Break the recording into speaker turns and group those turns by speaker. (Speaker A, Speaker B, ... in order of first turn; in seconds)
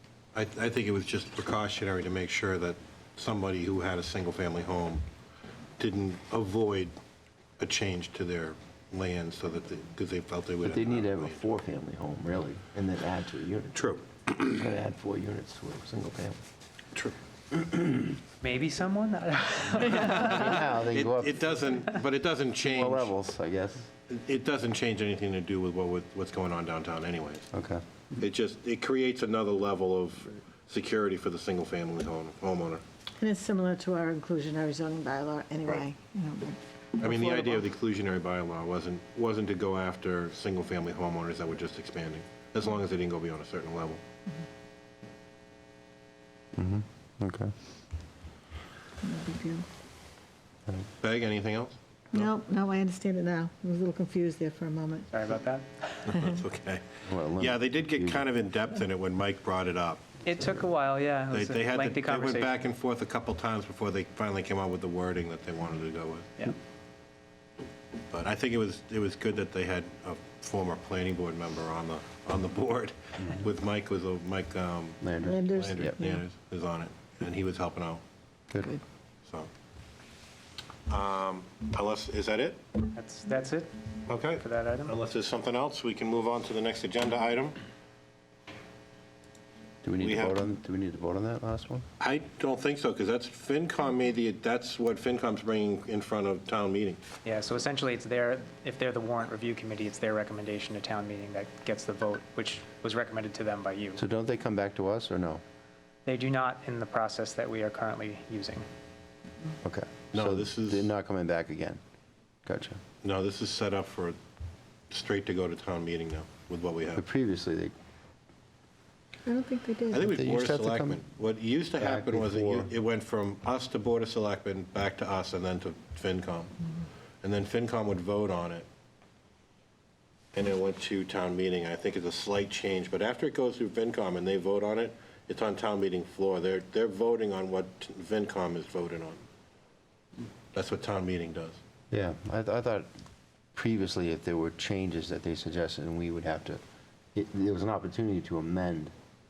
Speaker A: 0.3-5.0, 5.8-6.9, 7.6-11.4, 13.7-14.1, 20.9-23.1, 24.1-27.4, 28.2-32.8, 37.0-44.0, 51.0-52.3, 56.1-56.8, 57.4-60.1, 61.3-66.3, 68.1-75.0, 75.5-78.0, 80.9-82.6, 84.1-87.6, 90.0-90.4, 92.0-97.0, 110.1-110.9, 113.0-114.2, 114.9-117.0, 119.9-126.6, 127.2-128.7, 130.3-139.2, 140.5-141.6
Speaker B: 10.6-16.4, 17.5-18.1, 20.0-21.4, 22.7-23.9, 27.5-27.8, 46.5-47.5, 57.0-58.3, 75.0-76.0, 89.8-91.8, 104.0-105.4, 109.6-111.8, 112.5-112.8, 116.9-117.7, 120.0-121.0, 121.8-122.7, 141.9-142.9, 143.5-146.6, 147.1-148.9
Speaker C: 18.4-20.6, 55.1-56.1, 60.2-62.5, 82.9-83.8, 84.3-84.9, 97.2-104.0, 106.0-108.7
Speaker D: 33.2-37.6, 49.0-49.6, 52.1-55.1, 75.2-76.2, 119.2-120.0